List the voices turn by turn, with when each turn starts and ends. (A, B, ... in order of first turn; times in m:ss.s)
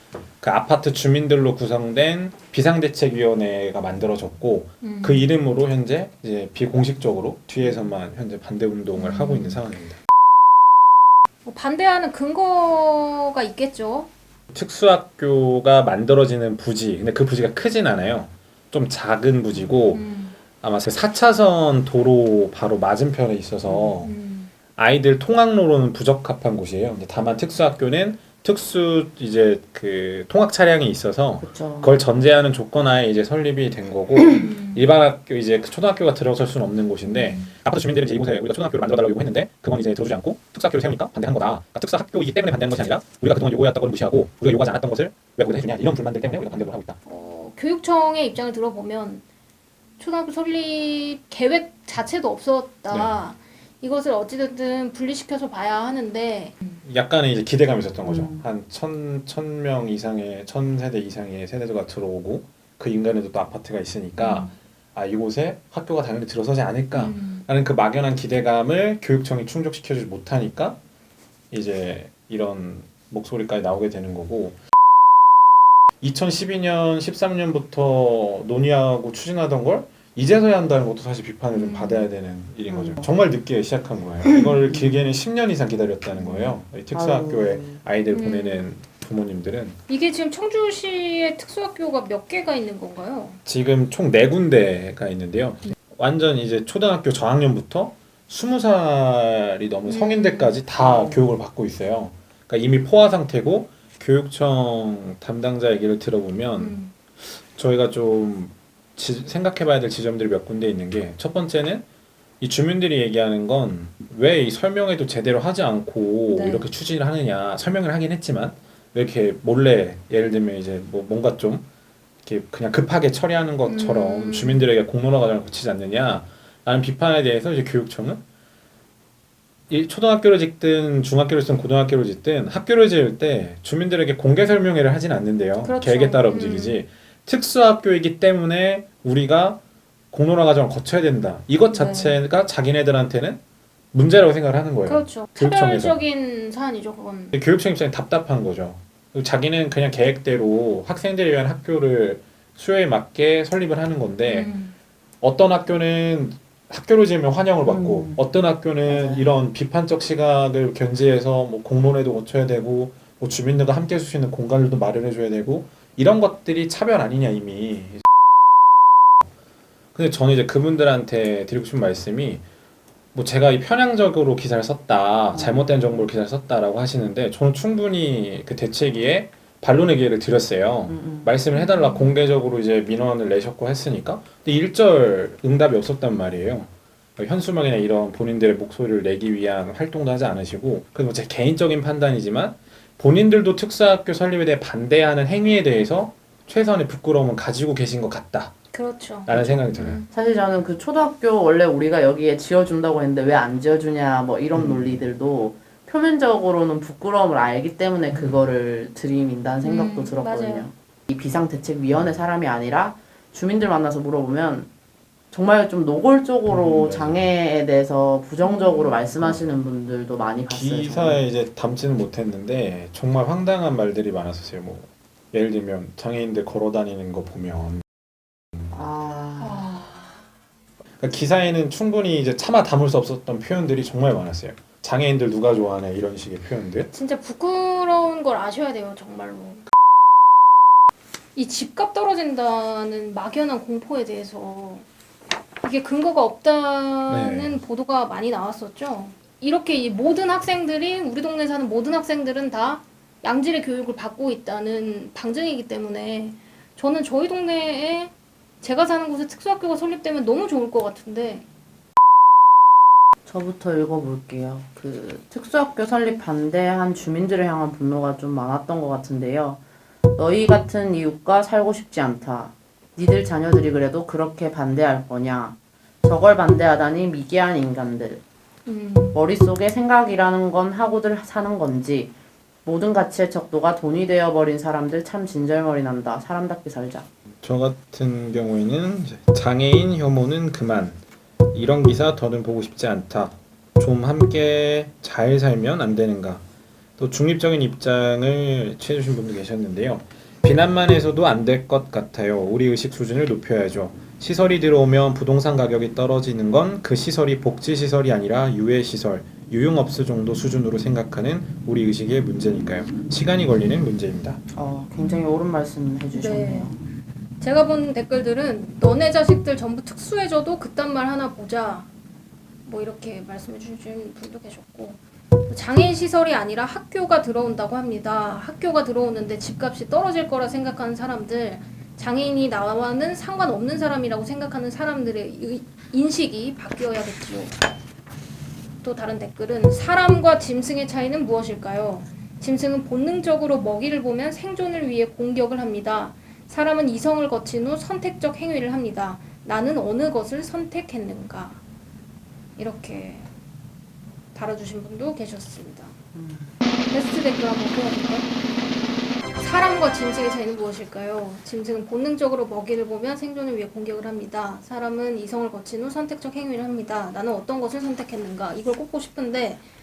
0:00.4-0:10.0 A
0:04.8-0:05.3 B
0:08.9-0:09.6 B
0:11.4-0:14.1 B
0:14.5-0:20.0 A
0:19.9-0:20.4 B
0:20.6-0:24.1 A
0:23.6-0:24.0 C
0:24.0-0:24.5 B
0:24.8-0:47.0 A
0:31.4-0:32.0 C
0:34.4-0:34.8 B
0:37.1-0:37.5 B
0:47.0-0:49.2 B
0:50.0-0:56.6 B
0:52.9-0:53.2 A
0:56.8-1:10.8 A
0:58.1-0:58.4 C
1:04.2-1:04.6 B
1:06.9-1:07.4 B
1:11.5-1:14.6 A
1:16.0-1:29.8 A
1:21.5-1:22.1 B
1:22.7-1:23.1 C
1:24.6-1:25.2 C
1:26.2-1:26.5 B
1:26.9-1:27.8 C
1:28.1-1:28.7 B
1:29.9-1:33.4 B
1:33.4-1:46.8 A
1:39.9-1:40.6 B
1:40.8-1:41.2 C
1:46.6-1:46.9 B
1:47.4-1:51.8 A
1:52.4-2:01.6 A
1:56.3-1:56.6 B
2:02.3-2:08.2 A
2:03.7-2:04.7 B
2:09.7-2:19.6 A
2:15.6-2:16.8 B
2:20.1-2:23.4 A
2:21.7-2:22.2 B
2:23.9-2:26.0 A
2:24.9-2:27.4 B
2:27.3-2:34.5 A
2:34.2-2:34.7 B
2:35.2-2:48.0 A
2:37.6-2:38.3 C
2:38.8-2:39.4 C
2:50.0-2:52.4 A
2:53.1-3:18.6 A
2:55.3-2:56.1 C
3:00.9-3:01.4 C
3:01.5-3:02.1 B
3:18.7-3:20.4 B
3:19.3-3:20.0 A
3:19.3-3:34.7 C
3:24.5-3:25.0 A
3:29.6-3:30.7 B
3:35.3-3:41.2 C
3:36.5-3:37.3 A
3:38.4-3:39.0 B
3:40.5-3:47.8 A
3:48.7-3:49.7 C
3:49.4-3:50.2 B
3:51.0-3:56.9 A
3:56.9-3:59.6 B
4:01.4-4:04.9 B
4:05.6-4:21.5 B
4:07.1-4:07.6 A
4:23.3-4:29.6 C
4:30.2-4:38.2 C
4:38.7-4:39.2 B
4:39.1-4:42.1 C
4:42.7-4:47.1 C
4:47.4-4:51.0 A
4:51.5-4:56.4 A
4:57.0-5:14.4 A
5:14.5-5:16.8 C
5:15.0-5:15.3 B
5:16.1-5:16.7 B
5:17.4-5:21.9 B
5:22.7-5:37.6 B
5:38.8-5:51.6 B
5:52.6-5:53.3 B
5:54.3-5:55.9 B
5:56.1-5:56.5 C
5:56.9-5:58.3 B
5:59.4-6:09.6 B